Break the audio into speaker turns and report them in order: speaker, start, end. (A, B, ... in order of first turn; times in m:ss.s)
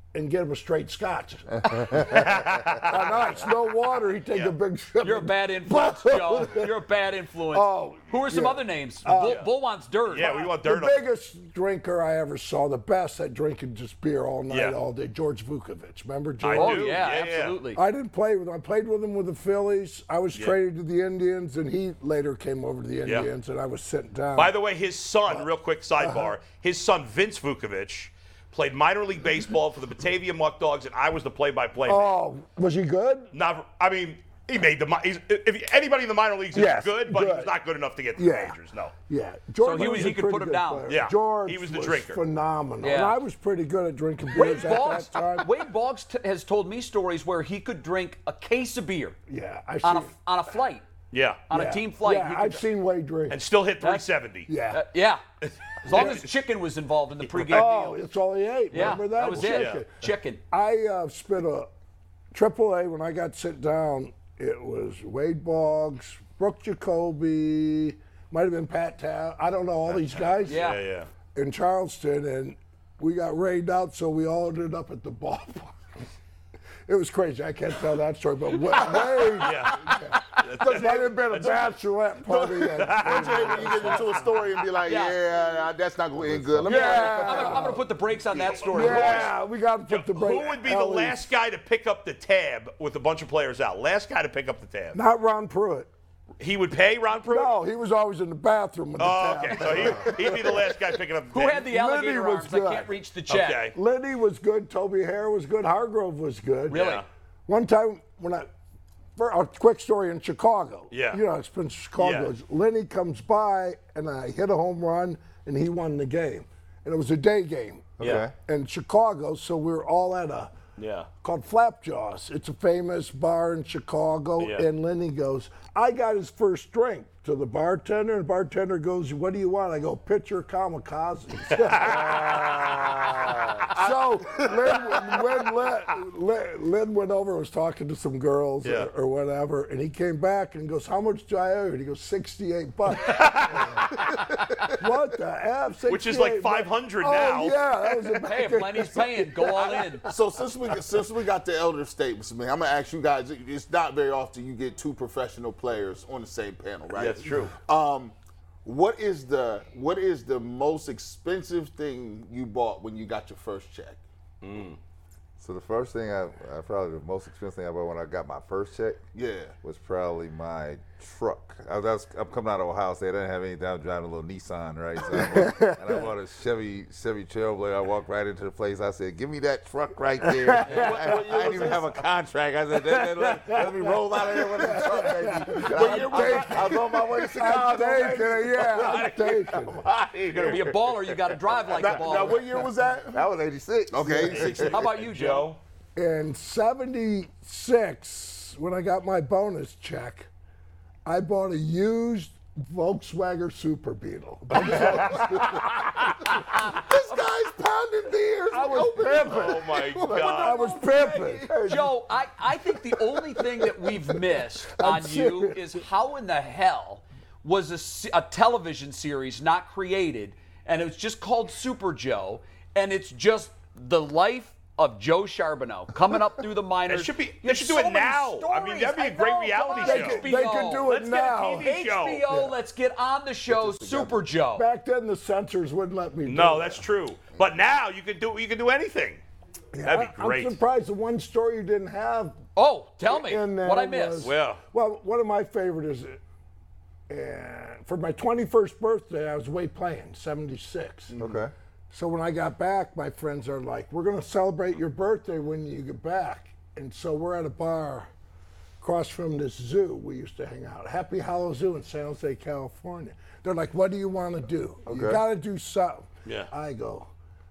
0:00.1-0:06.7 A
0:01.9-0:03.5 B
0:05.0-0:10.4 C
0:07.5-0:09.4 A
0:09.2-0:09.5 B
0:10.1-0:11.0 B
0:10.2-0:17.0 A
0:14.5-0:14.8 B
0:16.4-0:17.6 B
0:16.5-0:17.8 C
0:17.7-0:24.5 A
0:24.3-0:32.1 B
0:26.0-0:26.3 A
0:31.8-0:33.3 A
0:33.3-0:38.9 B
0:36.5-0:37.5 A
0:38.2-0:38.6 A
0:39.1-0:45.7 A
0:39.6-0:40.9 C
0:39.8-0:40.1 B
0:40.9-0:42.2 B
0:42.8-0:43.2 C
0:44.3-0:49.2 C
0:49.3-0:50.1 A
0:49.8-0:50.8 C
0:51.1-0:51.4 B
0:51.5-0:52.6 C
0:51.5-0:53.4 A
0:53.3-0:54.5 B
0:53.8-0:54.1 C
0:54.5-0:54.8 A
0:54.7-0:55.2 C
0:55.4-0:56.2 B
0:55.8-0:57.9 C
0:55.9-0:56.2 A
0:57.3-0:57.8 B
0:57.5-1:01.7 A
0:58.7-1:00.4 C
0:58.8-0:59.8 B
1:02.3-1:10.7 A
1:09.9-1:11.1 B
1:10.4-1:10.8 C
1:11.3-1:15.8 A
1:16.9-1:24.3 A
1:19.0-1:21.7 B
1:22.3-1:27.6 D
1:22.6-1:24.2 B
1:24.8-1:25.2 C
1:26.1-1:27.7 E
1:26.6-1:27.8 A
1:26.6-1:29.3 C
1:28.5-1:29.3 B
1:28.7-1:31.3 A
1:29.9-1:35.0 B
1:34.9-1:35.9 A
1:36.4-1:37.5 B
1:37.2-1:41.0 A
1:39.0-1:41.7 B
1:41.3-1:43.7 C
1:41.6-1:42.9 A
1:43.3-1:43.8 B
1:43.7-1:46.8 A
1:46.7-1:47.0 B
1:46.7-1:47.0 C
1:47.5-1:48.5 A
1:49.2-2:00.5 A
1:50.9-1:51.2 B
1:52.0-1:52.3 B
1:58.0-1:58.2 B
1:58.0-1:58.3 E
2:00.8-2:01.1 B
2:01.2-2:13.0 A
2:04.4-2:04.6 B
2:11.5-2:13.6 B
2:13.7-2:24.0 A
2:18.6-2:18.9 B
2:23.0-2:24.6 B
2:24.7-2:29.8 A
2:25.9-2:28.2 B
2:28.2-2:30.0 C
2:30.1-2:38.1 D
2:36.9-2:37.5 B
2:38.6-2:44.0 D
2:44.4-2:44.8 B
2:45.4-2:49.0 E
2:49.1-2:49.6 D
2:49.6-3:09.6 E
2:55.0-2:56.1 A
3:00.3-3:01.4 A
3:00.7-3:01.0 B
3:00.8-3:01.9 D
3:02.8-3:09.8 A
3:05.6-3:10.7 D
3:10.3-3:10.6 E
3:10.4-3:12.4 C
3:11.6-3:13.2 D
3:12.2-3:14.8 E
3:13.9-3:14.8 D
3:14.3-3:15.6 B
3:14.7-3:15.5 C
3:16.0-3:20.3 A
3:21.0-3:25.8 A
3:24.7-3:25.3 B
3:26.3-3:31.8 D
3:28.5-3:31.5 A
3:29.2-3:30.7 B
3:31.4-3:31.9 E
3:31.6-3:50.9 C
3:34.7-3:35.8 A
3:46.9-3:50.3 B
3:49.8-3:51.7 A
3:50.8-3:52.2 B
3:51.6-3:54.7 C
3:52.3-3:52.5 A
3:53.5-3:54.2 E
3:54.5-3:56.8 A
3:56.2-3:59.2 B
3:59.7-4:02.4 A
3:59.8-4:00.6 B
4:02.6-4:04.3 C
4:03.0-4:06.2 A
4:04.2-4:04.6 B
4:07.1-4:11.1 A
4:11.2-4:11.5 E
4:11.9-4:18.1 A
4:18.8-4:27.1 A
4:24.8-4:25.2 E
4:26.2-4:26.5 B